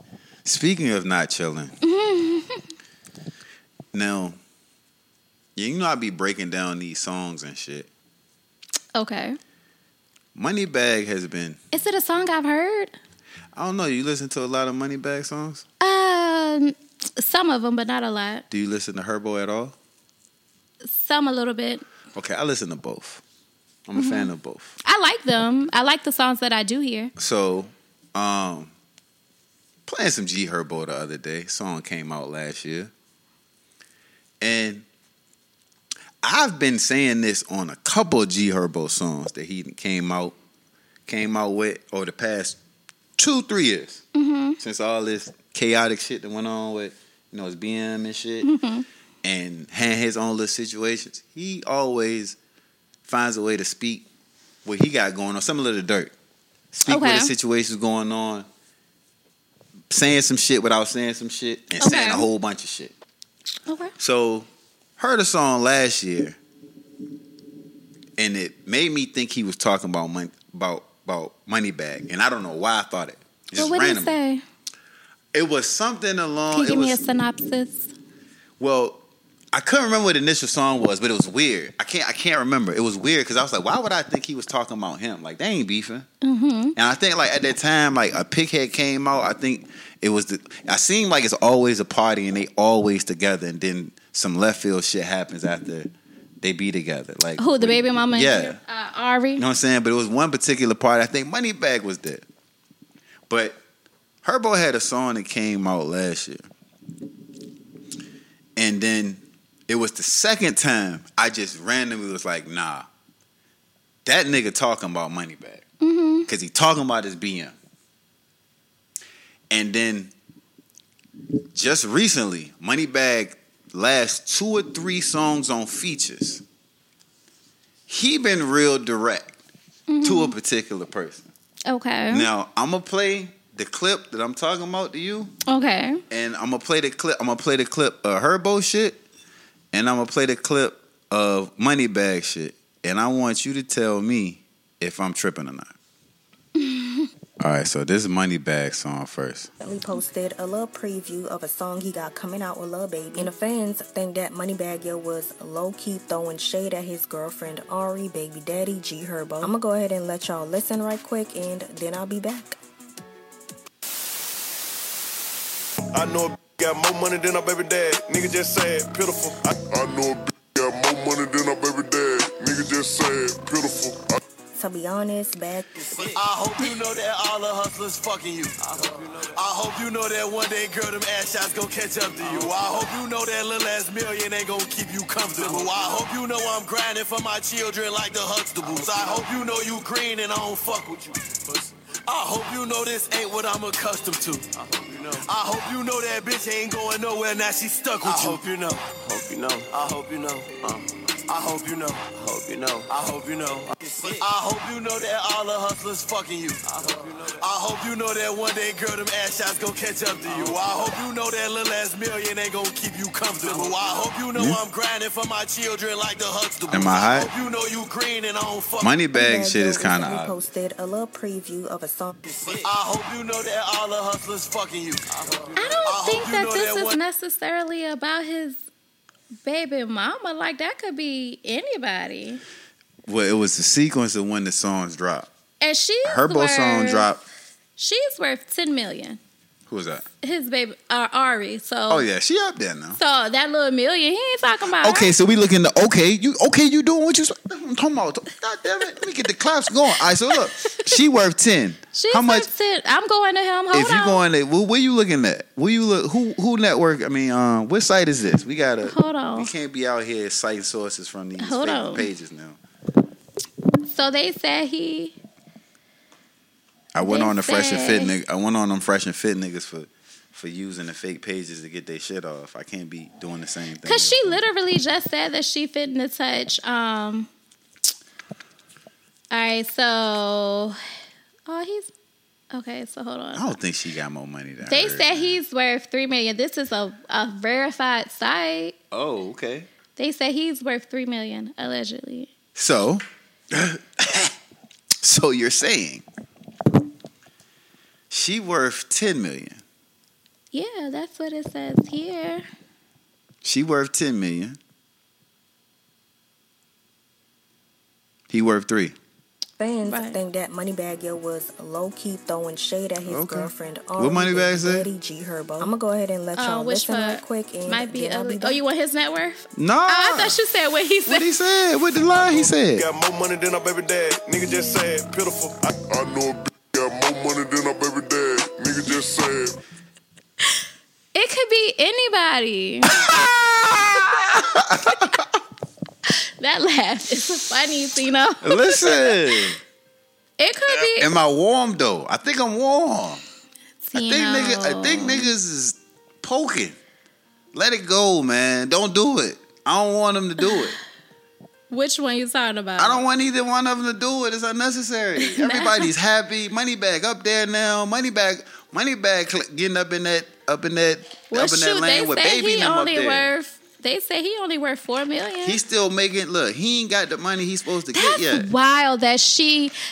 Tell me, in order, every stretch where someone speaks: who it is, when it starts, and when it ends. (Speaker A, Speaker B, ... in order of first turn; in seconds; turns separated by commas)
Speaker A: 0.5-1.8, Speaker B: 1.8-2.6, Speaker A: 3.9-4.4, Speaker A: 5.6-7.9, Speaker B: 8.9-9.4, Speaker A: 10.3-11.6, Speaker B: 11.7-12.9, Speaker A: 13.6-15.7, Speaker B: 15.8-18.4, Speaker A: 18.5-19.8, Speaker B: 20.9-21.8, Speaker A: 22.1-23.2, Speaker A: 23.9-24.7, Speaker B: 23.9-24.3, Speaker B: 24.8-27.1, Speaker A: 27.2-28.7, Speaker A: 29.9-32.9, Speaker A: 34.4-34.9, Speaker A: 36.2-40.4, Speaker A: 41.1-42.6, Speaker A: 43.2-44.0, Speaker B: 44.1-44.6, Speaker A: 44.6-48.5, Speaker B: 48.4-48.9, Speaker A: 49.2-52.4, Speaker A: 53.0-54.0, Speaker A: 54.6-56.1, Speaker A: 56.7-58.5, Speaker B: 56.8-57.3, Speaker A: 59.9-62.9, Speaker B: 61.8-62.3, Speaker B: 63.7-63.9, Speaker A: 64.0-64.5, Speaker A: 65.0-66.4, Speaker A: 68.2-74.2, Speaker B: 73.6-74.4, Speaker A: 75.3-77.0, Speaker B: 76.5-77.9, Speaker A: 78.6-79.0, Speaker A: 79.5-86.1, Speaker B: 86.2-86.8, Speaker A: 86.8-95.9, Speaker A: 96.4-98.6, Speaker B: 97.4-99.4, Speaker A: 99.4-102.2, Speaker A: 103.3-103.6, Speaker A: 104.2-106.5, Speaker A: 108.6-112.9, Speaker A: 114.0-115.7, Speaker B: 115.8-116.3, Speaker A: 116.3-117.5, Speaker A: 119.5-120.1, Speaker A: 121.5-126.4, Speaker A: 127.9-129.4, Speaker B: 129.9-130.3, Speaker A: 130.0-131.3, Speaker B: 131.7-132.3, Speaker A: 132.1-135.3, Speaker B: 135.5-136.0, Speaker A: 136.1-139.0, Speaker A: 139.7-145.7, Speaker B: 146.6-147.1, Speaker A: 147.4-149.5, Speaker C: 149.6-162.6, Speaker D: 165.9-174.2, Speaker C: 174.6-175.9, Speaker E: 176.0-218.9, Speaker A: 198.1-198.3, Speaker A: 216.7-217.3, Speaker A: 218.8-220.4, Speaker C: 219.2-222.2, Speaker E: 222.5-227.0, Speaker B: 225.6-228.6, Speaker B: 229.4-232.4, Speaker A: 233.1-235.3, Speaker B: 235.6-237.1, Speaker A: 236.1-237.2, Speaker B: 237.8-239.2, Speaker A: 239.7-240.1, Speaker B: 240.2-242.1, Speaker A: 241.9-243.0, Speaker B: 243.0-245.1, Speaker A: 244.8-252.5, Speaker B: 250.3-251.0, Speaker B: 251.9-254.2, Speaker A: 253.7-262.6, Speaker B: 258.8-259.5, Speaker B: 261.4-262.1, Speaker B: 263.9-265.2, Speaker A: 266.9-274.4, Speaker B: 267.0-268.1, Speaker B: 273.9-277.3, Speaker B: 279.3-280.8, Speaker B: 281.5-281.9, Speaker B: 282.5-283.6, Speaker A: 283.4-285.3, Speaker B: 284.6-288.8, Speaker A: 288.9-289.7, Speaker B: 290.0-292.3, Speaker A: 292.6-294.3, Speaker A: 295.0-296.1, Speaker A: 298.1-299.6, Speaker B: 300.5-302.4, Speaker A: 303.4-304.6, Speaker A: 308.3-309.0, Speaker C: 309.6-318.6, Speaker B: 309.9-310.2, Speaker A: 313.0-314.9, Speaker B: 316.4-321.3, Speaker A: 319.6-320.4, Speaker A: 321.1-322.9, Speaker D: 322.8-329.6, Speaker B: 331.1-333.2, Speaker A: 332.9-335.4, Speaker B: 334.4-335.0, Speaker B: 336.1-339.2, Speaker A: 338.4-339.6, Speaker B: 340.4-341.1, Speaker A: 340.7-343.2, Speaker B: 343.8-345.3, Speaker A: 343.9-346.8, Speaker A: 347.5-350.8, Speaker B: 351.7-353.1, Speaker A: 352.8-363.3, Speaker B: 355.2-355.9, Speaker B: 361.3-365.6, Speaker A: 365.4-368.5, Speaker B: 367.9-369.7